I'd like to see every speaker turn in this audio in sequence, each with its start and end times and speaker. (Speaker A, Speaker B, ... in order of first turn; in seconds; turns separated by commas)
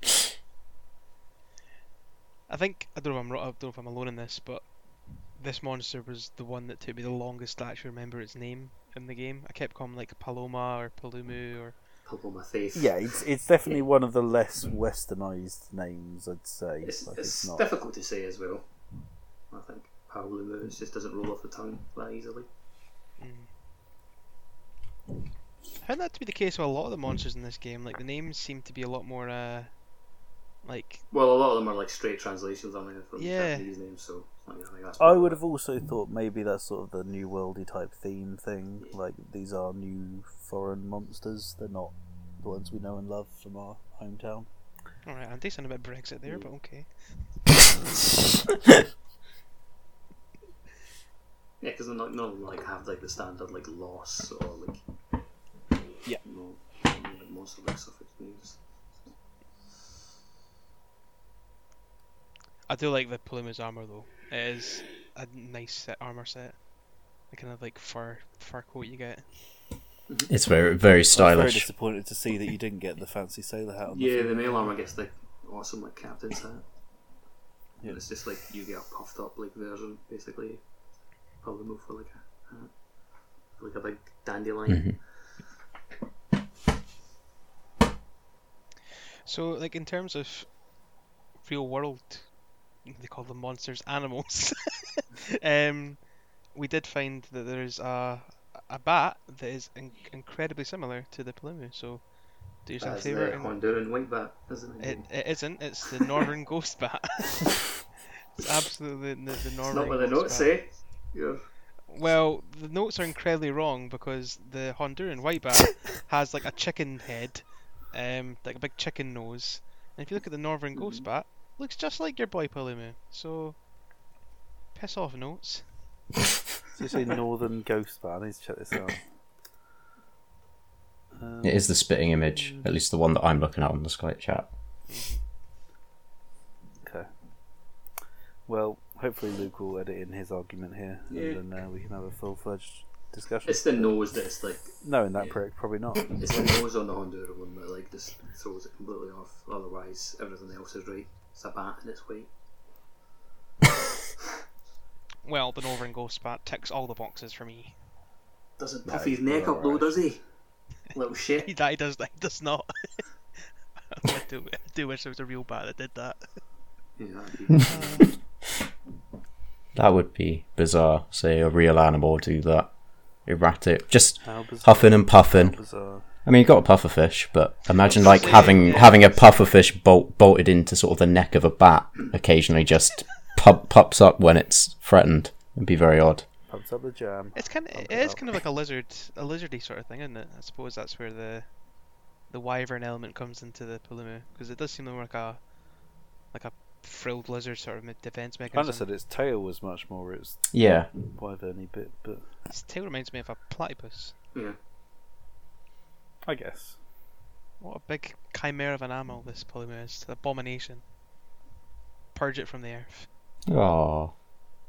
Speaker A: 2.5-11.8, Speaker B: 12.1-13.2, Speaker C: 12.7-17.7, Speaker B: 16.8-18.8, Speaker B: 19.5-22.5, Speaker A: 23.2-23.5, Speaker A: 25.8-29.9, Speaker A: 30.6-31.0, Speaker B: 31.1-35.4, Speaker A: 33.2-33.7, Speaker C: 35.0-44.5, Speaker A: 45.0-47.4, Speaker B: 51.6-54.8, Speaker B: 56.2-59.2, Speaker A: 62.7-69.5, Speaker D: 70.3-71.7, Speaker C: 71.1-74.7, Speaker B: 73.9-76.7, Speaker B: 77.8-80.8, Speaker B: 81.3-85.3, Speaker D: 84.7-85.0, Speaker A: 89.2-103.8, Speaker B: 102.8-105.7, Speaker A: 104.8-111.1, Speaker B: 109.7-112.1, Speaker A: 111.9-123.6, Speaker B: 120.8-121.1, Speaker A: 124.7-125.9, Speaker C: 126.8-129.1, Speaker C: 131.1-132.7, Speaker D: 131.4-134.6, Speaker A: 134.9-135.2, Speaker C: 136.8-137.1, Speaker C: 138.5-144.0, Speaker B: 141.1-141.4, Speaker B: 143.4-152.3, Speaker C: 144.7-146.4, Speaker A: 155.2-157.9, Speaker B: 158.6-161.5, Speaker C: 158.9-160.1, Speaker A: 161.4-166.4, Speaker B: 167.0-168.0, Speaker A: 167.6-168.1, Speaker D: 169.8-186.3, Speaker C: 174.2-176.1, Speaker A: 177.9-179.3, Speaker C: 186.4-188.3, Speaker A: 187.3-191.6, Speaker A: 192.2-195.6, Speaker A: 196.3-198.9, Speaker C: 198.5-202.3, Speaker D: 200.5-200.9, Speaker A: 202.5-204.2, Speaker C: 206.2-206.8, Speaker A: 207.6-210.8, Speaker A: 212.1-213.1, Speaker D: 213.5-214.2